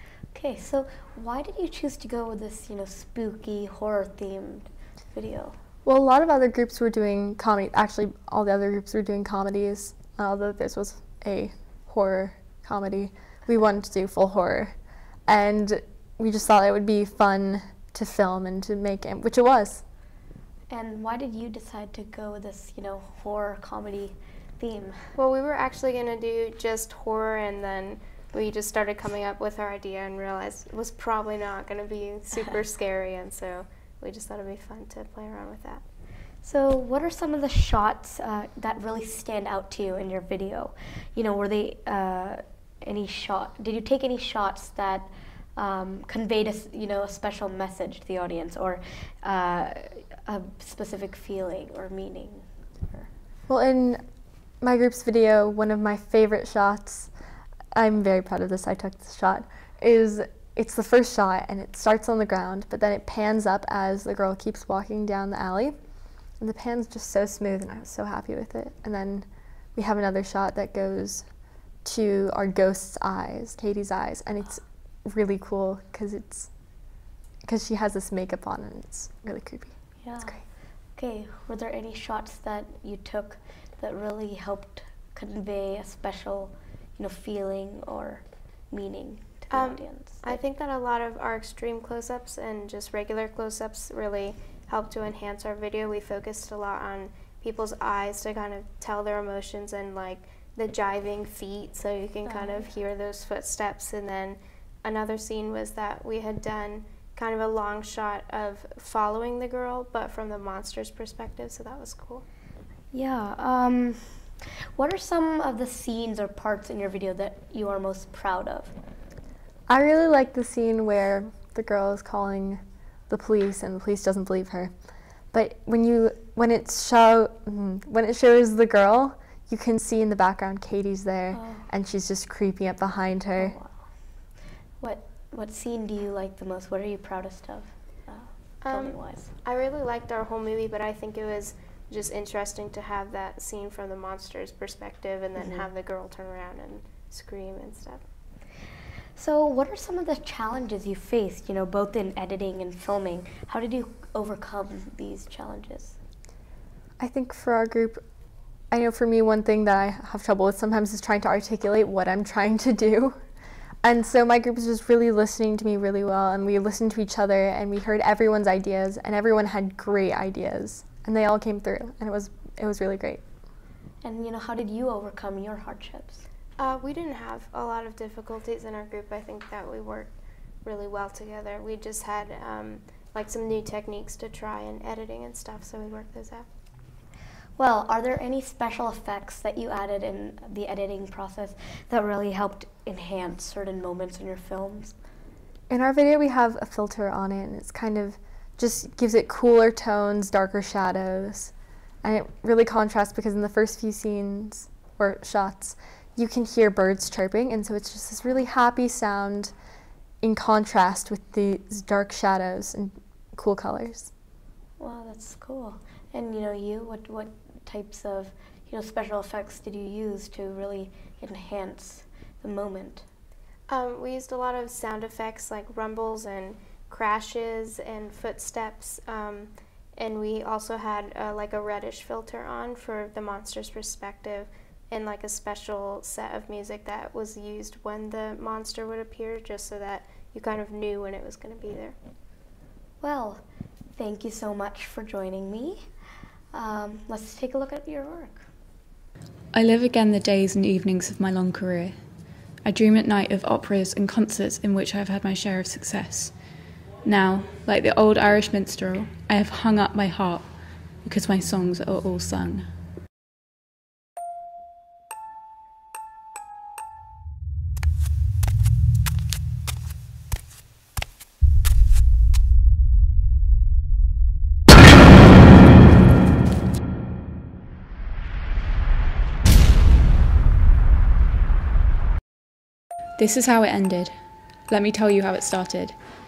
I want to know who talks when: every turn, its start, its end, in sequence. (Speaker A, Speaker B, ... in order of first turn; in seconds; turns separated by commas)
Speaker A: 0.3-5.6, Speaker B: 5.8-14.7, Speaker B: 15.3-19.8, Speaker A: 20.7-25.1, Speaker C: 25.2-35.8, Speaker A: 36.4-53.1, Speaker B: 53.5-54.0, Speaker B: 54.6-57.1, Speaker B: 57.7-65.8, Speaker B: 66.4-71.2, Speaker B: 71.8-76.5, Speaker B: 77.5-79.8, Speaker A: 80.0-80.4, Speaker A: 81.0-90.4, Speaker C: 89.5-112.2, Speaker A: 102.2-102.7, Speaker A: 112.9-118.7, Speaker B: 119.7-124.7, Speaker B: 125.3-133.6, Speaker A: 131.3-131.7, Speaker A: 133.3-133.8, Speaker A: 134.8-139.3, Speaker C: 138.6-148.0, Speaker A: 145.4-145.7, Speaker A: 149.2-156.0, Speaker B: 157.0-158.0, Speaker B: 158.7-163.2, Speaker B: 163.8-173.2, Speaker A: 174.0-176.3, Speaker C: 176.6-180.1, Speaker C: 180.6-186.5, Speaker A: 187.6-194.9, Speaker B: 195.7-209.5, Speaker B: 210.2-214.1, Speaker A: 214.8-223.1, Speaker C: 223.7-241.9, Speaker A: 243.0-245.9, Speaker A: 246.5-248.4, Speaker D: 249.5-252.0, Speaker D: 252.6-256.3, Speaker D: 257.0-262.7, Speaker D: 283.2-286.0